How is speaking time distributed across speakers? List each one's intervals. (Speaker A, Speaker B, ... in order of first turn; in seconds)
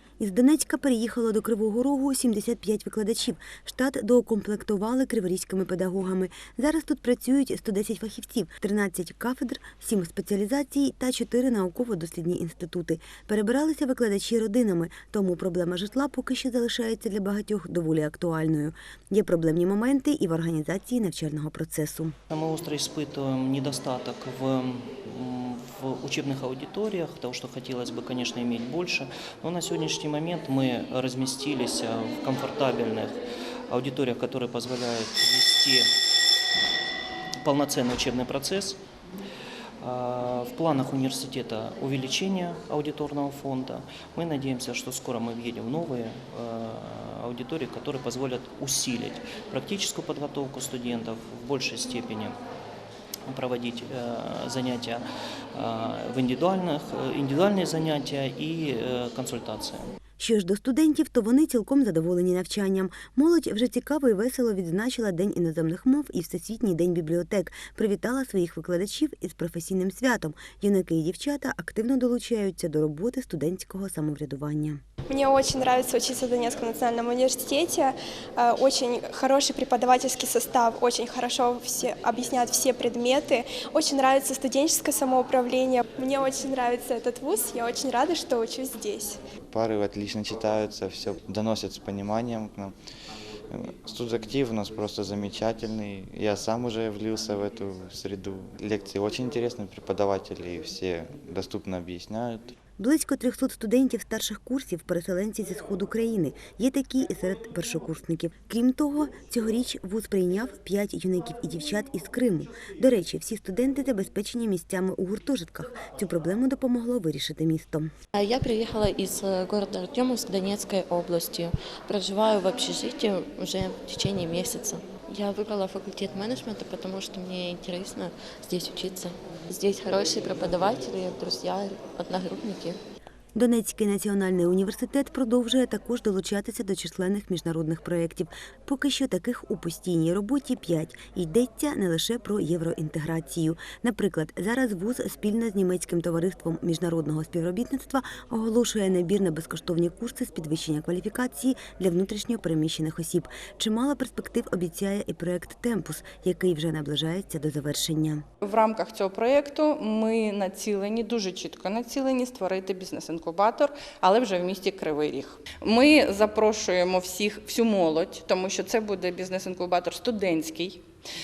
Speaker A: 0.2-22.2, 60.2-74.8, 102.8-117.9, 133.4-158.2
Speaker B: 22.3-33.2, 33.7-35.9, 37.4-38.8, 39.8-52.4, 53.3-55.0, 55.5-59.9
Speaker C: 75.1-89.2
Speaker D: 89.5-92.7, 93.5-102.5
Speaker E: 118.2-132.8
Speaker F: 158.4-170.8